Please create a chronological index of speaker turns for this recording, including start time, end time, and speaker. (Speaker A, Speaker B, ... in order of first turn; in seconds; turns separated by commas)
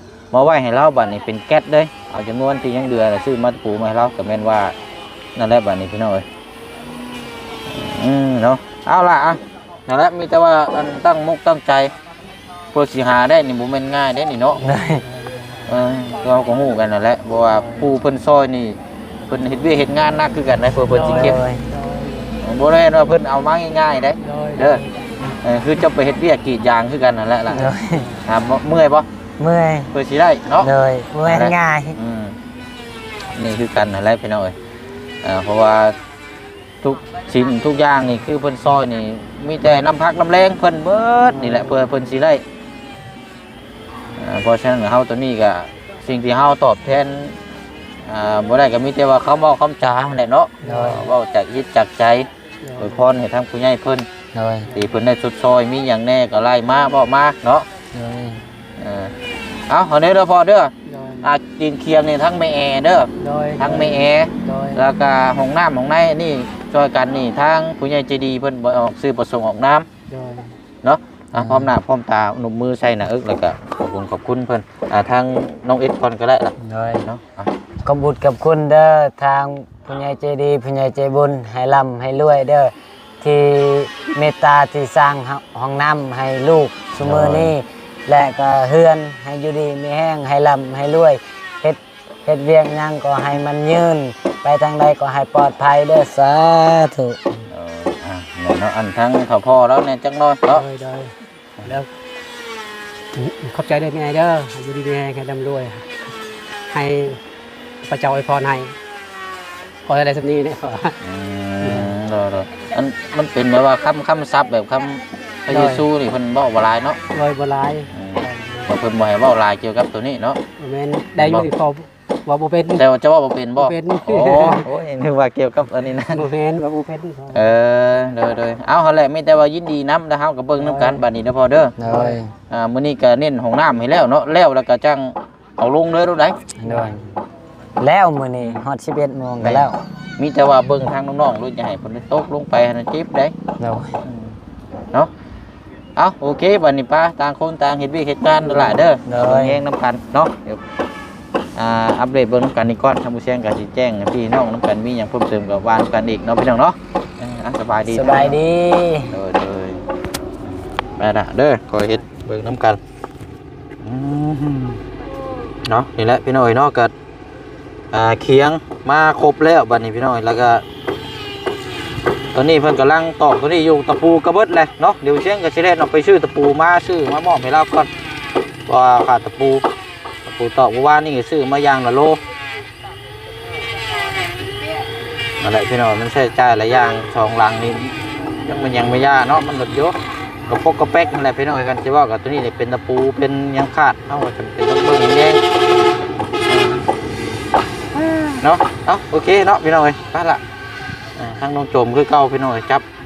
Speaker A: 0.3-4.8, Speaker A: 5.4-6.3, Speaker A: 7.7-11.9, Speaker A: 12.7-14.6, Speaker B: 14.6-15.6, Speaker C: 14.6-15.0, Speaker A: 15.7-21.4, Speaker B: 17.6-17.9, Speaker B: 20.9-22.4, Speaker C: 21.0-21.6, Speaker A: 22.4-24.8, Speaker B: 24.2-25.1, Speaker A: 25.4-29.1, Speaker C: 27.5-28.1, Speaker C: 29.4-29.9, Speaker A: 29.9-30.7, Speaker C: 30.6-32.0, Speaker A: 31.2-32.4, Speaker A: 33.3-34.6, Speaker A: 35.2-36.0, Speaker A: 36.8-42.4, Speaker B: 41.3-41.7, Speaker A: 44.2-47.4, Speaker A: 48.0-54.1, Speaker B: 50.6-51.0, Speaker C: 50.6-51.0, Speaker B: 52.6-53.0, Speaker C: 54.3-54.7, Speaker A: 54.7-57.7, Speaker C: 57.9-58.4, Speaker A: 58.8-59.1, Speaker A: 59.7-69.9, Speaker B: 60.9-61.3, Speaker B: 63.2-64.8, Speaker B: 70.1-70.5, Speaker A: 70.8-77.5, Speaker C: 71.4-71.7, Speaker C: 76.6-77.1, Speaker C: 77.8-97.2, Speaker A: 87.0-87.5, Speaker A: 97.5-100.7, Speaker B: 100.5-101.1, Speaker B: 103.2-106.0, Speaker B: 106.7-107.2, Speaker B: 107.8-108.7, Speaker B: 109.9-111.0, Speaker A: 111.0-117.0, Speaker B: 111.6-111.9, Speaker B: 115.5-115.8, Speaker B: 117.1-118.7, Speaker A: 117.9-120.4, Speaker B: 120.6-122.8, Speaker A: 121.2-121.5, Speaker A: 122.8-126.2, Speaker B: 123.6-124.7, Speaker B: 126.1-127.4, Speaker A: 127.3-131.8, Speaker B: 130.6-131.0, Speaker C: 131.8-132.3, Speaker B: 131.8-132.2, Speaker A: 132.5-136.4, Speaker C: 136.6-137.0, Speaker B: 136.7-137.0, Speaker C: 137.8-139.8, Speaker A: 139.4-143.3, Speaker C: 143.6-144.0, Speaker A: 144.0-144.4, Speaker A: 146.0-150.6, Speaker C: 149.1-149.6, Speaker A: 151.6-158.4, Speaker C: 157.8-159.1, Speaker A: 159.1-159.8, Speaker A: 161.0-162.8, Speaker A: 163.8-164.8, Speaker A: 165.7-166.9, Speaker A: 167.9-170.7, Speaker A: 172.3-177.9, Speaker A: 178.7-179.7, Speaker A: 180.2-182.2, Speaker A: 185.4-190.0, Speaker A: 190.5-195.4, Speaker A: 196.4-196.9, Speaker A: 197.9-200.4, Speaker A: 201.2-202.8